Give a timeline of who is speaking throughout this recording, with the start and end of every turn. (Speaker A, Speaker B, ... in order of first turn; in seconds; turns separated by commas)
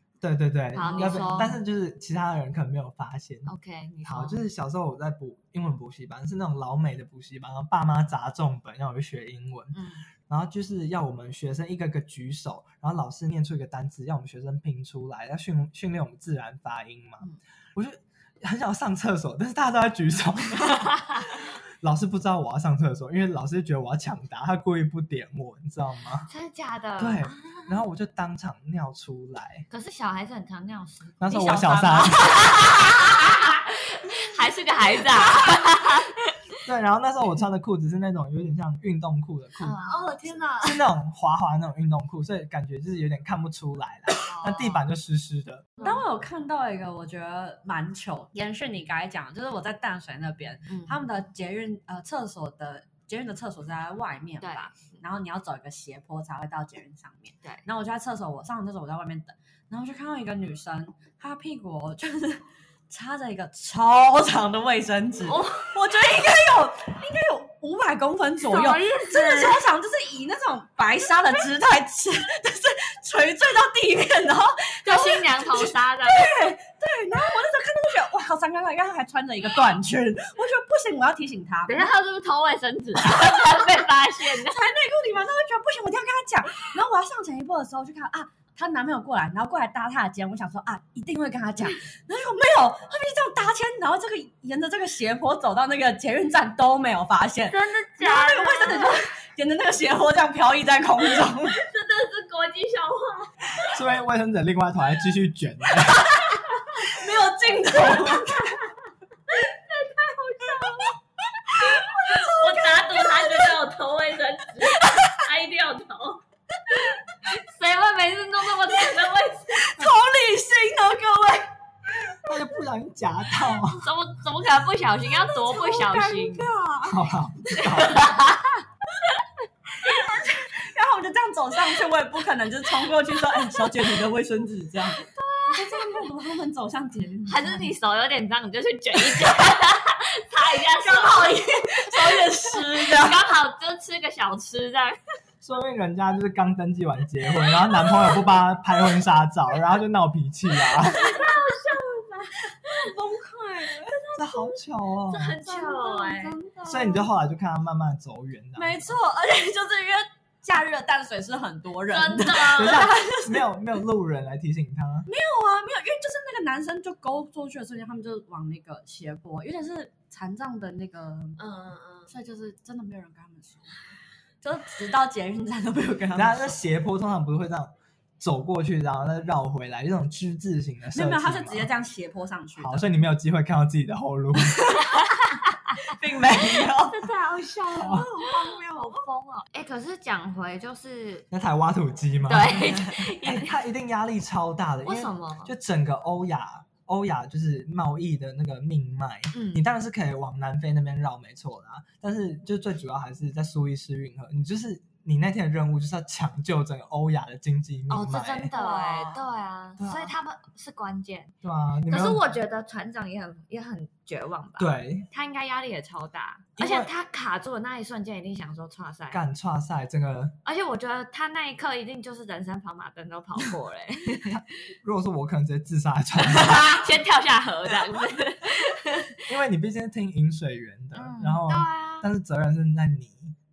Speaker A: 0.2-3.5, Speaker B: 0.7-1.6, Speaker B: 3.5-4.4, Speaker A: 4.0-26.3, Speaker B: 26.3-27.8, Speaker A: 27.0-29.7, Speaker B: 29.7-36.4, Speaker A: 31.2-32.3, Speaker C: 31.7-33.4, Speaker C: 35.0-35.8, Speaker A: 36.6-39.8, Speaker B: 39.6-40.5, Speaker C: 39.7-40.9, Speaker A: 40.6-45.7, Speaker B: 44.2-44.8, Speaker B: 45.8-46.0, Speaker C: 45.8-81.9, Speaker B: 50.7-51.0, Speaker B: 54.4-54.8, Speaker B: 65.3-65.8, Speaker B: 68.4-69.6, Speaker B: 74.8-76.5, Speaker B: 81.7-84.6, Speaker C: 83.0-101.6, Speaker B: 97.5-99.1, Speaker B: 101.5-103.7, Speaker A: 103.6-106.2, Speaker C: 105.8-108.6, Speaker B: 108.2-108.5, Speaker B: 109.3-119.9, Speaker C: 110.6-110.9, Speaker C: 111.6-113.6, Speaker C: 114.6-115.2, Speaker C: 119.5-121.5, Speaker A: 122.1-123.9, Speaker B: 123.7-126.5, Speaker C: 125.3-127.9, Speaker A: 126.8-128.2, Speaker B: 127.6-129.3, Speaker C: 129.8-137.7, Speaker B: 129.8-130.4, Speaker B: 135.0-136.1, Speaker B: 137.3-145.0, Speaker C: 140.6-143.3, Speaker A: 145.4-151.2, Speaker B: 147.4-148.2, Speaker B: 150.7-152.9, Speaker C: 152.6-154.1, Speaker B: 153.8-154.6, Speaker A: 154.2-155.4, Speaker B: 155.1-156.3, Speaker C: 155.4-157.1, Speaker A: 156.7-158.9, Speaker C: 158.6-163.5, Speaker B: 161.9-162.9, Speaker A: 162.5-165.1, Speaker C: 165.1-173.8, Speaker B: 171.4-172.1, Speaker C: 174.4-176.6, Speaker A: 176.1-181.7, Speaker C: 180.9-182.9, Speaker A: 182.6-184.6, Speaker C: 184.4-187.1, Speaker B: 184.9-185.8, Speaker B: 186.8-191.3, Speaker C: 187.7-189.0, Speaker A: 187.8-188.1, Speaker A: 191.3-208.5, Speaker B: 192.3-193.6, Speaker B: 194.8-195.5, Speaker B: 199.3-199.7, Speaker B: 207.9-211.3, Speaker C: 208.5-209.3, Speaker A: 209.8-210.1, Speaker A: 211.4-212.3, Speaker B: 211.9-219.2, Speaker A: 214.6-215.1, Speaker A: 216.6-216.9, Speaker A: 219.1-220.4, Speaker B: 220.4-224.4, Speaker A: 224.2-226.8, Speaker B: 226.3-229.3, Speaker A: 229.3-233.4, Speaker B: 230.9-232.1